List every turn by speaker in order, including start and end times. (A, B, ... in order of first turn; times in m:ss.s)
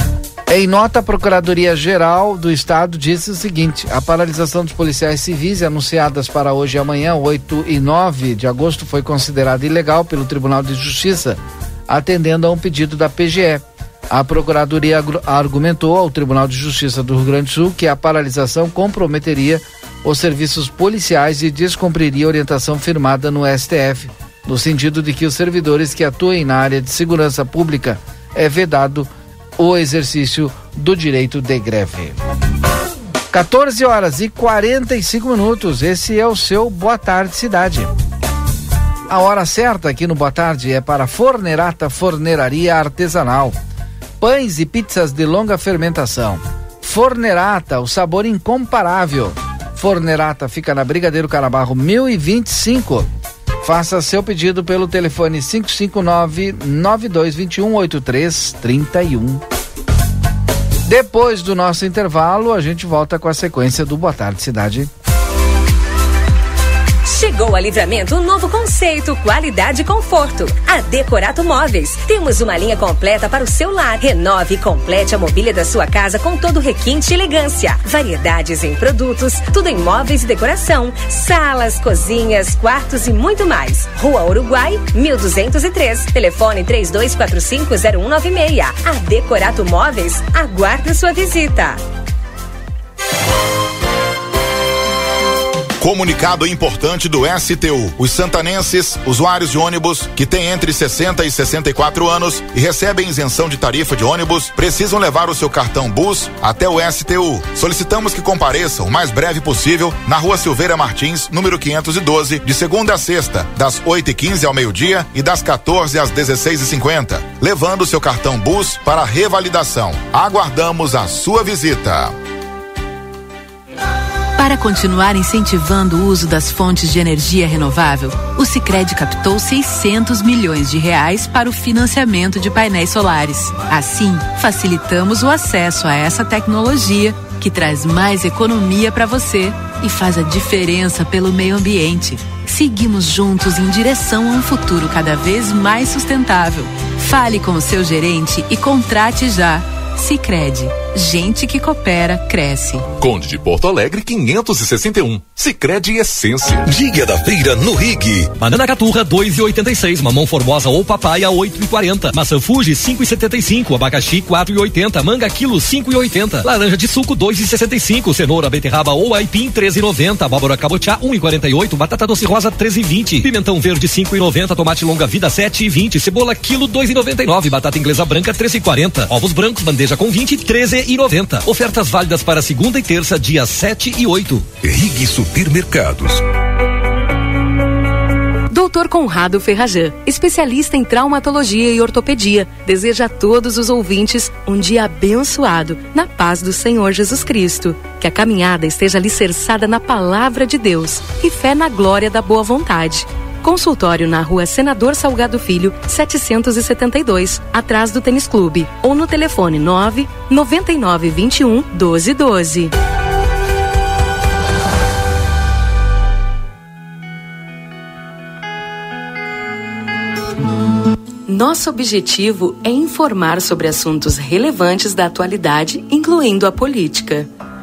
0:00.5-0:32.2 A
0:33.3-0:37.9 A
0:39.1-0:43.6 A
0:44.2-0:53.1 A
0:53.6-0:59.4 A
1:00.9-1:04.9 A
1:07.0-1:31.8 B
1:35.8-2:02.1 C
2:04.4-2:32.9 D
2:33.0-2:36.7 E
2:36.7-2:38.3 F
2:38.4-3:04.5 G
3:04.6-3:06.2 F
3:08.5-3:32.7 H
3:41.3-3:47.3 H